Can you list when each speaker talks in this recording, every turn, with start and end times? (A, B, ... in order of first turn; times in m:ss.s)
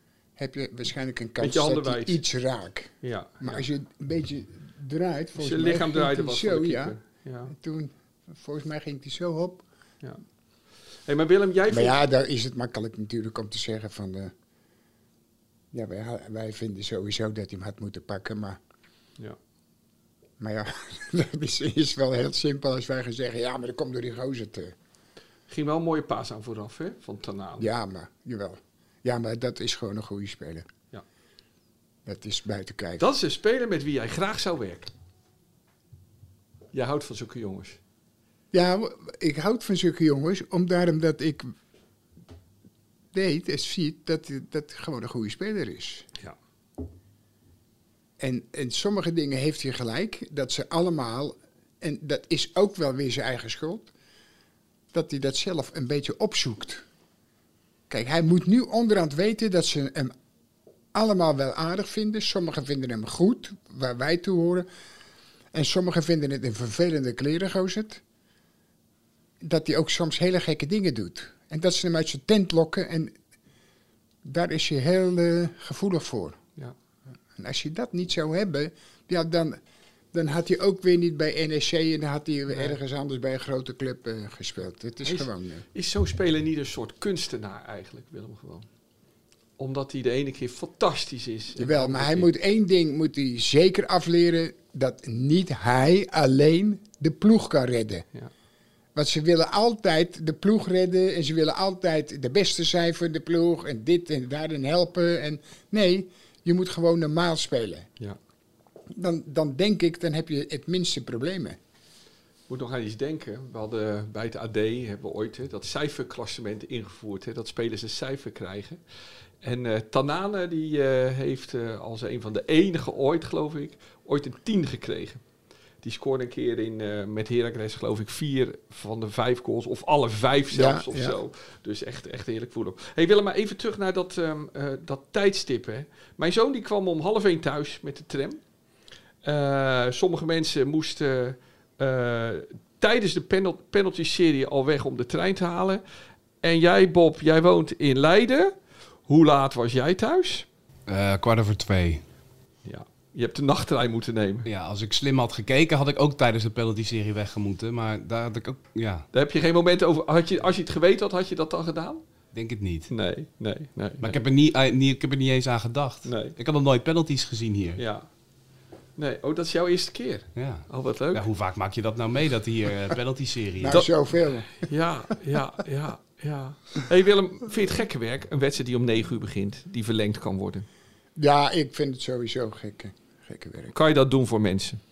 0:00.4-0:07.0 A
0:01.4-0:02.2 B
0:03.0-0:03.7 B
0:05.4-0:07.5 B
0:07.5-0:09.7 A
0:11.1-0:12.0 B
0:11.7-0:14.3 A
0:15.7-0:18.6 A
0:20.4-0:24.8 A
0:25.5-0:27.7 B
0:27.6-0:30.7 A
0:32.1-0:33.1 A
0:33.0-0:34.9 B
0:36.7-0:37.8 B
0:38.5-0:41.5 A
0:43.1-0:46.1 A
0:48.2-0:53.9 A
0:54.9-0:56.8 A
0:57.9-1:00.1 A
1:00.9-1:04.7 A
1:05.5-1:08.0 A
1:09.4-1:13.2 A
1:14.2-1:16.4 A
1:17.4-1:19.6 A
1:20.1-1:25.6 A
1:22.5-1:22.8 B
1:25.0-1:28.7 B
1:29.6-1:32.3 B
1:31.6-1:38.1 A
1:39.0-1:47.9 A
1:48.9-1:51.6 A
1:52.5-1:58.8 B
1:59.4-2:05.2 B
2:05.8-2:18.4 B
2:10.5-2:11.2 A
2:19.2-2:25.8 B
2:26.4-2:28.6 B
2:29.1-2:30.5 B
2:30.9-2:32.0 C
2:32.6-2:34.5 B
2:34.5-2:39.1 C
2:39.1-2:42.0 B
2:42.3-2:42.9 C
2:42.9-2:44.2 B
2:44.0-2:47.8 C
2:46.0-2:46.4 B
2:47.8-2:48.1 B
2:49.0-2:51.2 B
2:50.4-2:53.8 C
2:53.6-2:54.7 A
2:53.6-2:53.9 B
2:54.5-3:00.7 B
3:01.2-3:03.7 A
3:03.7-3:04.8 B